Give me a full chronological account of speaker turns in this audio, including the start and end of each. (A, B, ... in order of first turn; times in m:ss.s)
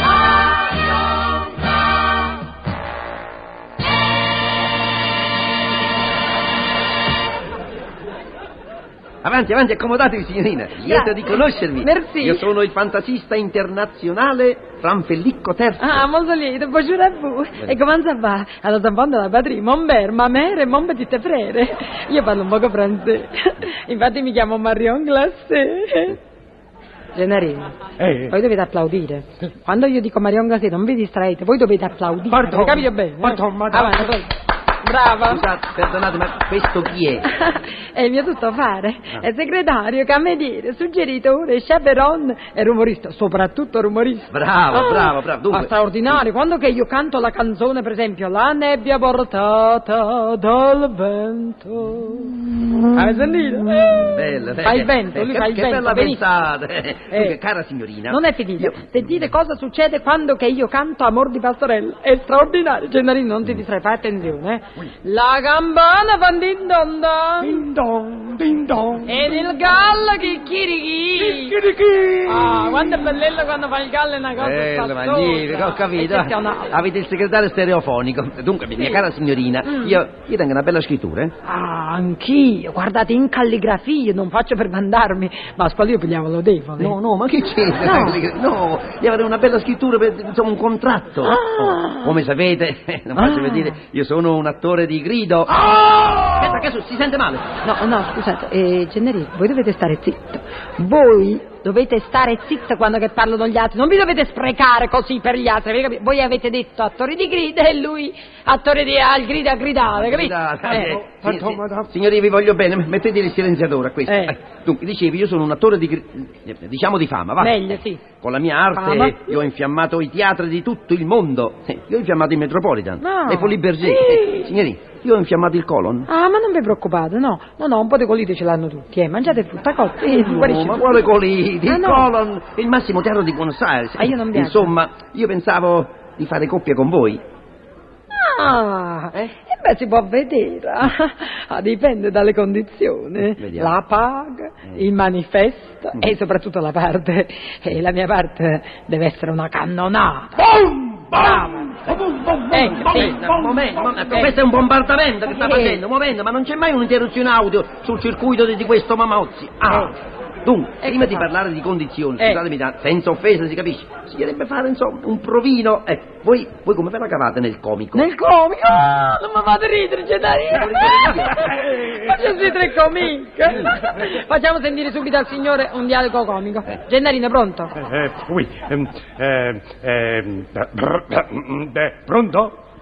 0:09.2-0:16.0 A
0:10.8-0:12.4 B
0:15.8-0:26.2 B
0:27.1-0:27.8 B
0:28.0-0:28.3 C
0:28.3-0:35.4 B
0:32.3-0:34.1 C
0:35.2-0:37.3 A
0:37.2-0:56.2 B
0:44.3-0:45.7 A
0:54.0-0:58.9 A
0:57.1-0:57.4 B
0:58.1-1:07.6 B
1:07.4-1:09.5 C
1:09.1-1:11.6 B
1:11.2-1:12.9 C
1:12.3-1:16.8 B
1:14.4-1:21.3 A
1:19.6-1:20.0 B
1:21.4-1:27.0 B
1:26.8-1:37.4 A
1:27.8-1:28.2 B
1:31.2-1:32.2 B
1:33.2-1:33.8 B
1:35.6-1:36.4 C
1:37.6-1:51.0 B
1:49.9-2:06.1 A
1:50.8-1:51.9 C
1:54.1-1:54.3 B
1:57.4-1:58.0 B
1:58.7-1:59.3 B
2:03.0-2:04.5 B
2:06.1-2:11.1 B
2:10.0-2:17.2 A
2:11.7-2:12.1 B
2:14.0-2:14.7 B
2:18.1-2:30.5 B
2:23.2-2:23.7 A
2:30.4-2:48.1 A
2:31.1-2:31.8 B
2:32.2-2:33.9 C
2:32.5-2:33.2 B
2:34.1-2:34.3 B
2:35.3-2:35.8 B
2:39.7-2:39.9 B
2:40.8-2:41.3 B
2:47.9-2:57.7 B
2:50.5-2:51.6 A
2:51.4-2:51.8 C
2:57.8-3:02.5 C